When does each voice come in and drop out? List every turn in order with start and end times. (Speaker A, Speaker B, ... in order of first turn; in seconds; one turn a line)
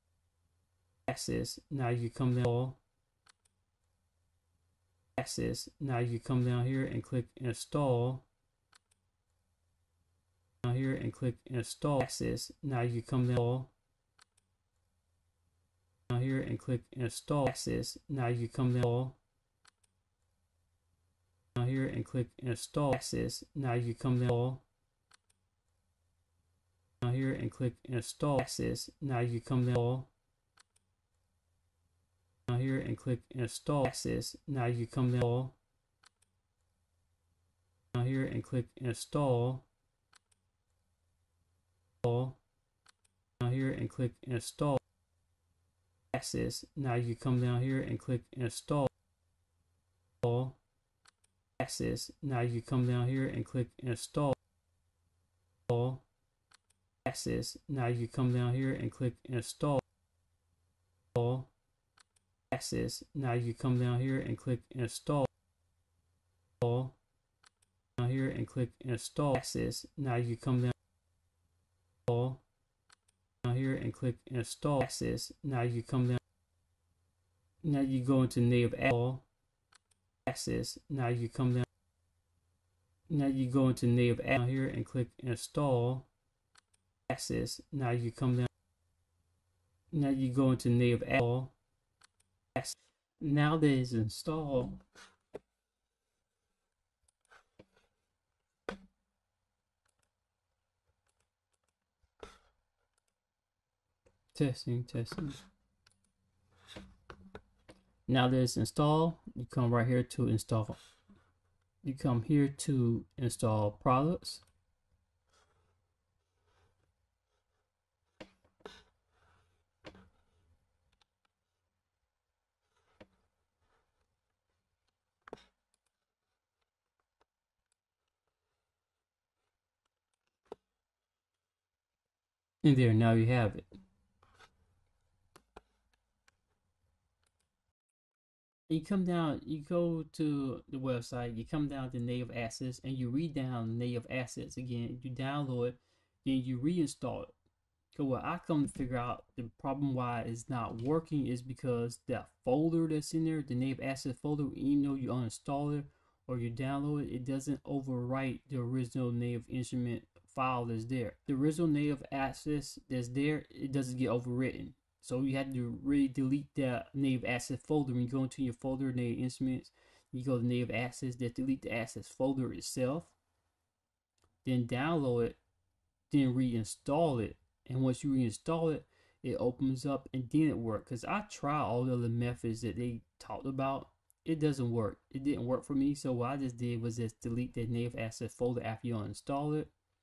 Speaker A: 1.1-2.8
Speaker A: 5.2-8.2
Speaker A: 10.6-13.7
Speaker A: 16.1-19.2
Speaker A: 21.6-24.6
Speaker A: 27.0-30.1
Speaker A: 32.5-35.6
Speaker A: 37.9-39.7
Speaker A: 42.0-42.4
Speaker A: 43.4-44.8
Speaker A: 46.1-48.9
Speaker A: 50.2-50.6
Speaker A: 51.6-54.4
Speaker A: 55.7-56.0
Speaker A: 57.0-59.8
Speaker A: 61.1-61.5
Speaker A: 62.5-65.3
Speaker A: 66.6-67.0
Speaker A: 68.0-70.8
Speaker A: 72.1-72.4
Speaker A: 73.4-76.2
Speaker A: 77.6-79.3
Speaker A: 80.3-81.7
Speaker A: 83.1-86.1
Speaker A: 87.1-88.5
Speaker A: 89.9-91.5
Speaker A: 92.5-94.8
Speaker A: 104.3-105.4
Speaker A: 108.1-110.8
Speaker A: 111.8-114.4
Speaker A: 132.6-133.7
Speaker A: 138.7-147.3
Speaker A: 147.9-173.2
Speaker A: 174.4-175.4
Speaker A: 176.1-189.7